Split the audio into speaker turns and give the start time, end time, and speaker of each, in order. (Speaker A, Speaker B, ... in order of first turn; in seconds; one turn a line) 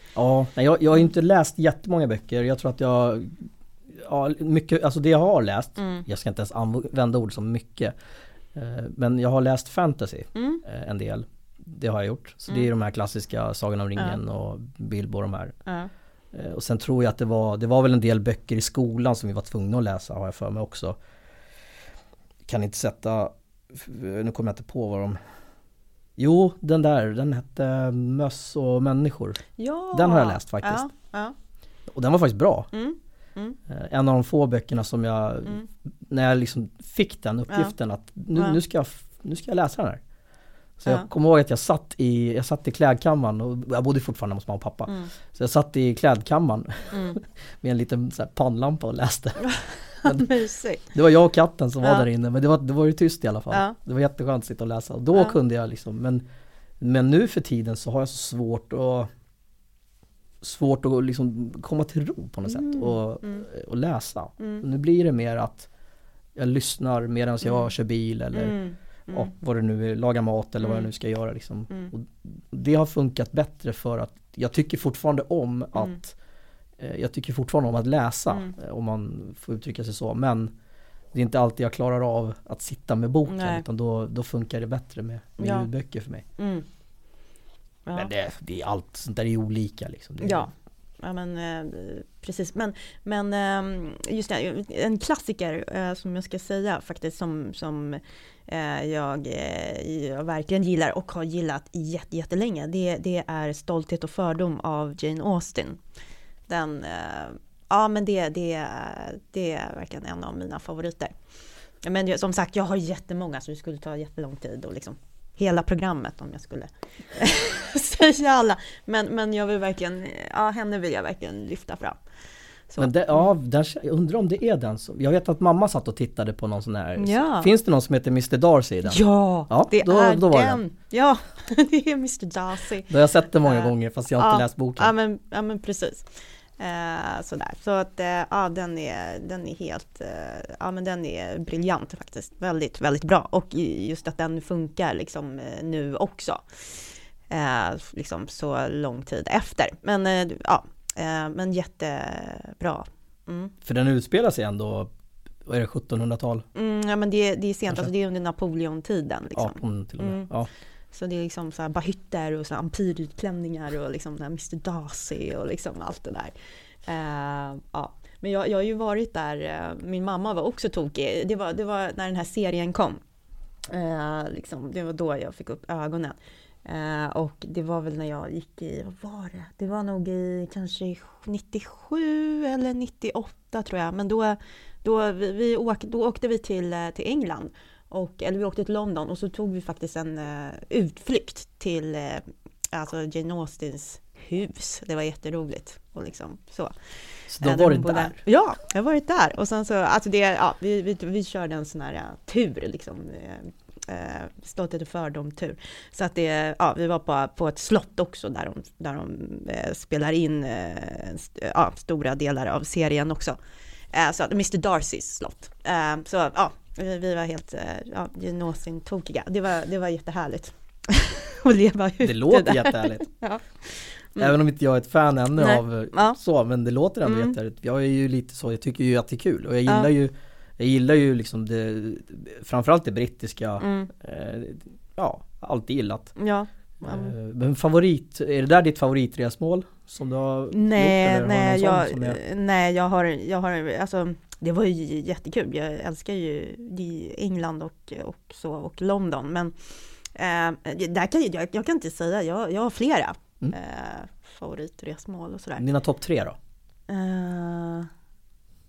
Speaker A: 0.1-7.9
Speaker B: 5.8-6.1
Speaker A: 8.5-15.6
Speaker B: 10.3-10.6
Speaker A: 16.3-21.0
Speaker A: 22.5-25.2
Speaker A: 26.2-30.9
Speaker B: 29.6-31.4
Speaker A: 31.9-32.7
Speaker B: 32.7-33.6
Speaker A: 33.7-40.0
Speaker A: 40.8-50.3
Speaker B: 46.9-47.2
Speaker B: 49.5-50.8
Speaker A: 50.9-56.2
Speaker B: 53.5-53.8
Speaker A: 56.8-59.1
Speaker A: 60.4-65.7
Speaker B: 62.5-63.5
Speaker A: 66.3-68.6
Speaker B: 67.4-67.7
Speaker B: 68.3-69.3
Speaker A: 69.1-76.1
Speaker B: 70.6-70.9
Speaker A: 76.8-80.5
Speaker A: 81.1-86.2
Speaker B: 83.3-83.6
Speaker B: 85.4-85.7
Speaker B: 86.4-86.7
Speaker A: 87.9-90.5
Speaker B: 90.2-105.8
Speaker B: 106.5-111.1
Speaker B: 111.8-122.0
Speaker B: 122.7-123.3
Speaker A: 122.8-130.6
Speaker B: 127.0-127.5
Speaker B: 128.9-132.9
Speaker A: 132.9-134.9
Speaker B: 133.4-153.5
Speaker A: 153.6-154.9
Speaker A: 155.4-156.5
Speaker B: 156.5-160.3
Speaker A: 159.3-160.5
Speaker B: 160.9-166.3
Speaker B: 166.9-173.0
Speaker B: 173.7-196.7
Speaker A: 197.3-198.2
Speaker B: 197.4-213.4
Speaker B: 213.9-224.3
Speaker A: 222.0-223.1
Speaker A: 224.2-236.2
Speaker B: 225.4-226.2
Speaker B: 227.0-227.3
Speaker B: 233.6-233.9
Speaker B: 236.2-237.1
Speaker A: 236.8-242.2
Speaker B: 240.5-255.6
Speaker A: 255.6-256.4
Speaker B: 256.9-257.9